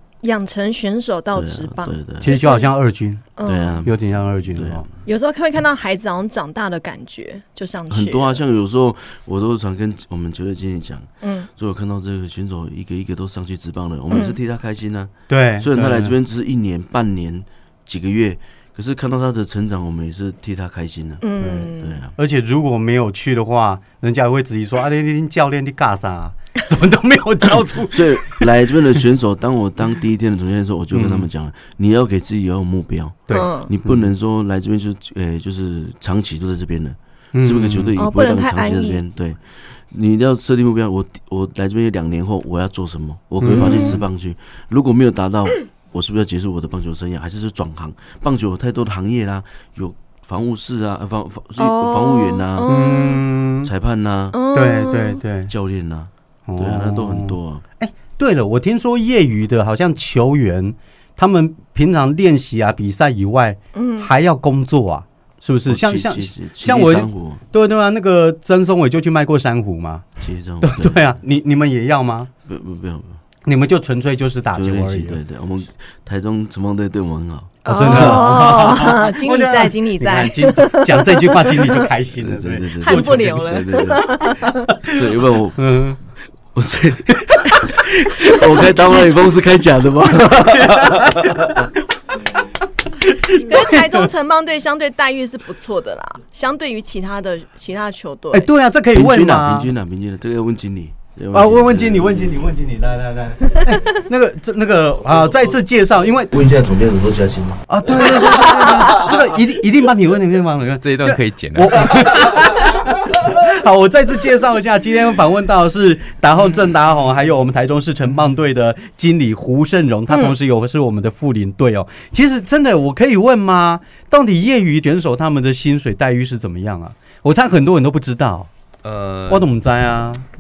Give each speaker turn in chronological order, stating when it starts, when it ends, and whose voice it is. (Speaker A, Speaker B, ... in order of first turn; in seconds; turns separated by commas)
Speaker A: 0.2-2.7, Speaker B: 1.3-2.3, Speaker C: 2.2-3.2, Speaker A: 3.4-3.9, Speaker B: 3.4-4.9, Speaker C: 3.8-4.9, Speaker A: 5.0-8.4, Speaker B: 7.9-22.1, Speaker A: 11.2-11.5, Speaker A: 14.1-14.4, Speaker C: 15.3-16.1, Speaker A: 21.2-22.0, Speaker C: 21.4-28.5, Speaker B: 27.9-52.7, Speaker C: 30.9-31.3, Speaker C: 33.3-34.1, Speaker A: 33.3-33.7, Speaker C: 37.3-38.0, Speaker A: 38.0-39.0, Speaker C: 43.4-44.0, Speaker A: 43.5-44.0, Speaker A: 51.6-53.2, Speaker C: 52.7-53.7, Speaker B: 53.6-54.4, Speaker A: 54.3-55.2, Speaker C: 54.5-55.5, Speaker B: 55.5-57.6, Speaker C: 56.5-70.1, Speaker A: 63.7-64.1, Speaker B: 65.7-67.4, Speaker B: 70.2-71.1, Speaker C: 70.6-72.3, Speaker B: 72.5-73.2, Speaker C: 73.5-75.2, Speaker B: 74.5-78.4, Speaker A: 77.7-81.7, Speaker C: 77.7-83.5, Speaker B: 82.2-85.8, Speaker A: 82.8-84.7, Speaker C: 84.4-84.9, Speaker C: 85.6-86.0, Speaker B: 86.5-91.7, Speaker C: 90.6-91.5, Speaker C: 93.0-94.1, Speaker A: 93.3-98.5, Speaker C: 98.3-99.7, Speaker B: 98.9-102.4, Speaker C: 101.3-106.3, Speaker B: 106.3-109.0, Speaker C: 107.7-128.5, Speaker D: 110.8-112.1, Speaker D: 128.8-129.5, Speaker C: 129.3-130.2